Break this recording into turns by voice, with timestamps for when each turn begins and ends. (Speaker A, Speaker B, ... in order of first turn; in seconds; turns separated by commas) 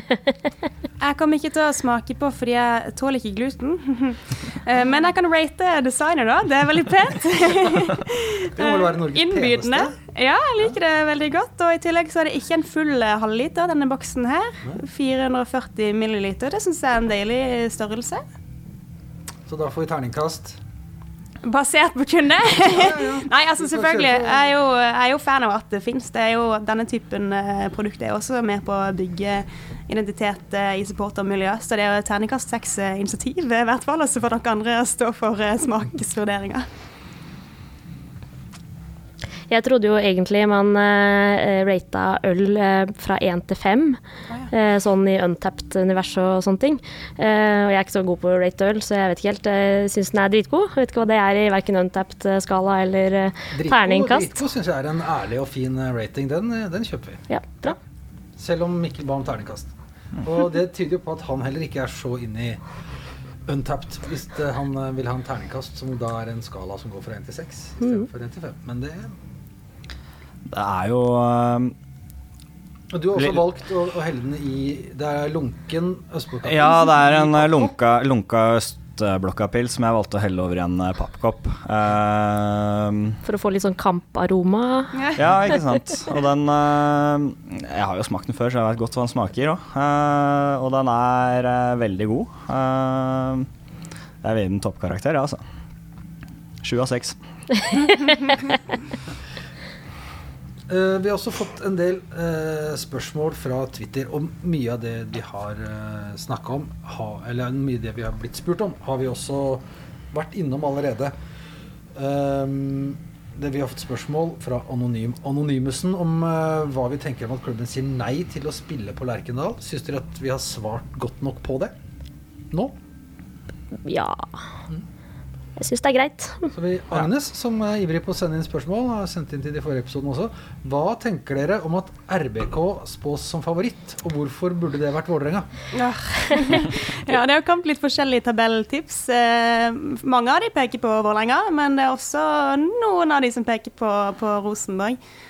Speaker A: 1.0-18.2, Speaker B: 8.5-9.9, Speaker B: 19.5-20.6, Speaker A: 21.4-36.7, Speaker B: 22.6-24.5, Speaker C: 39.5-54.4, Speaker B: 53.5-57.8, Speaker C: 57.3-57.8, Speaker B: 58.4-62.6, Speaker B: 63.5-69.2, Speaker D: 70.5-71.7, Speaker B: 72.9-77.7, Speaker D: 73.2-73.4, Speaker D: 76.4-83.2, Speaker C: 83.2-85.1, Speaker D: 85.1-93.5, Speaker D: 94.2-95.4, Speaker D: 96.6-97.2, Speaker B: 100.7-111.1, Speaker B: 111.9-121.7, Speaker B: 122.5-122.8, Speaker C: 123.8-124.4, Speaker C: 125.6-126.5, Speaker B: 126.5-135.5, Speaker A: 135.7-145.0